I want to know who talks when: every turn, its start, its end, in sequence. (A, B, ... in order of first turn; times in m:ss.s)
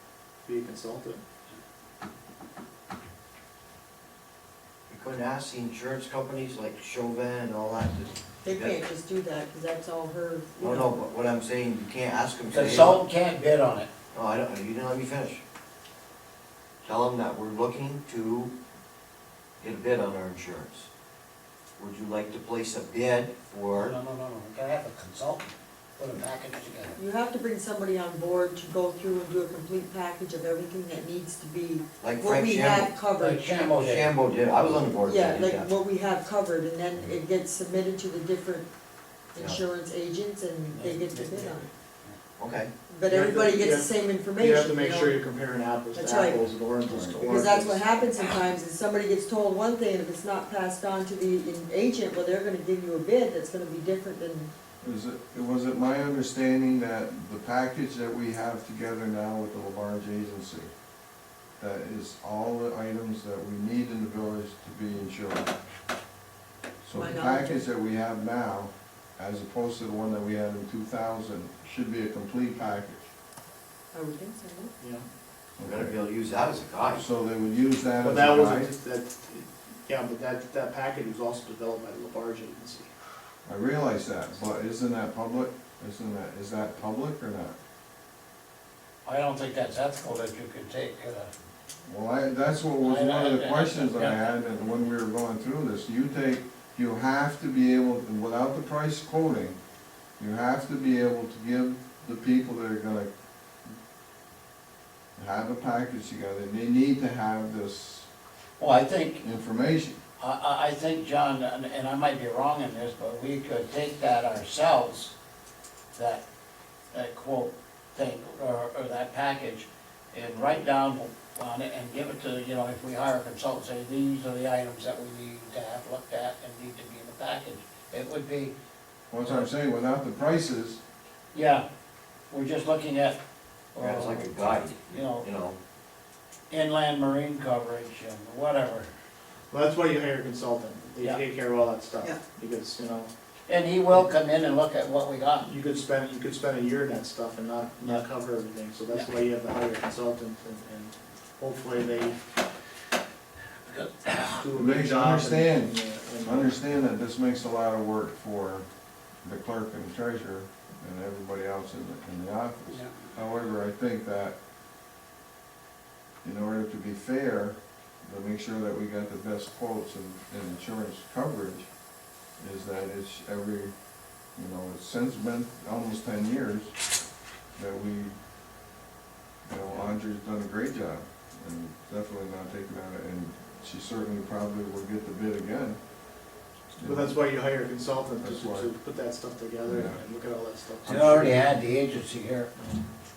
0:00.4-0:01.2 A
0:04.9-0:08.8 B
0:08.4-0:11.0 C
0:10.6-0:13.0 B
0:12.5-0:13.9 D
0:14.1-0:15.4 B
0:16.8-0:18.5 B
0:19.6-0:20.9 B
0:21.8-0:24.0 B
0:23.7-0:27.0 D
0:27.0-0:33.7 C
0:32.0-0:32.9 B
0:33.2-0:34.1 D
0:33.8-0:35.7 B
0:35.0-0:38.7 C
0:39.3-0:41.7 C
0:40.7-0:42.2 D
0:42.4-0:42.7 B
0:42.9-0:45.2 C
0:43.1-0:47.9 A
0:46.0-0:46.4 C
0:46.9-0:47.4 E
0:47.3-0:54.5 C
0:54.8-1:00.7 E
1:01.6-1:05.5 E
1:06.8-1:13.1 E
1:06.9-1:07.6 C
1:13.9-1:14.8 C
1:14.8-1:15.1 A
1:15.6-1:15.9 E
1:15.6-1:17.1 B
1:16.9-1:18.7 E
1:18.0-1:22.9 A
1:23.4-1:27.6 E
1:29.0-1:31.3 D
1:31.8-1:39.6 E
1:32.8-1:34.3 D
1:40.2-1:43.1 E
1:45.2-1:48.1 E
1:48.6-1:49.3 D
1:49.2-1:50.0 E
1:50.2-1:55.1 D
1:55.9-1:56.2 D
1:56.9-2:08.5 D
2:09.1-2:10.8 E
2:11.3-2:11.7 D
2:12.3-2:13.2 D
2:13.8-2:15.3 D
2:13.8-2:15.6 B
2:16.5-2:18.9 D
2:19.5-2:23.1 A
2:23.5-2:25.5 D
2:25.4-2:32.2 A
2:33.6-2:34.4 D
2:34.4-2:36.5 A
2:34.5-2:38.6 E
2:39.2-2:44.4 E
2:42.7-2:42.9 D
2:46.2-2:51.7 E
2:52.4-2:53.7 E
2:54.3-2:56.8 E
2:57.6-2:58.1 E
2:59.4-3:05.8 E
3:06.8-3:07.2 E
3:06.8-3:11.4 A
3:08.2-3:08.7 E
3:09.7-3:10.0 E
3:10.8-3:12.5 D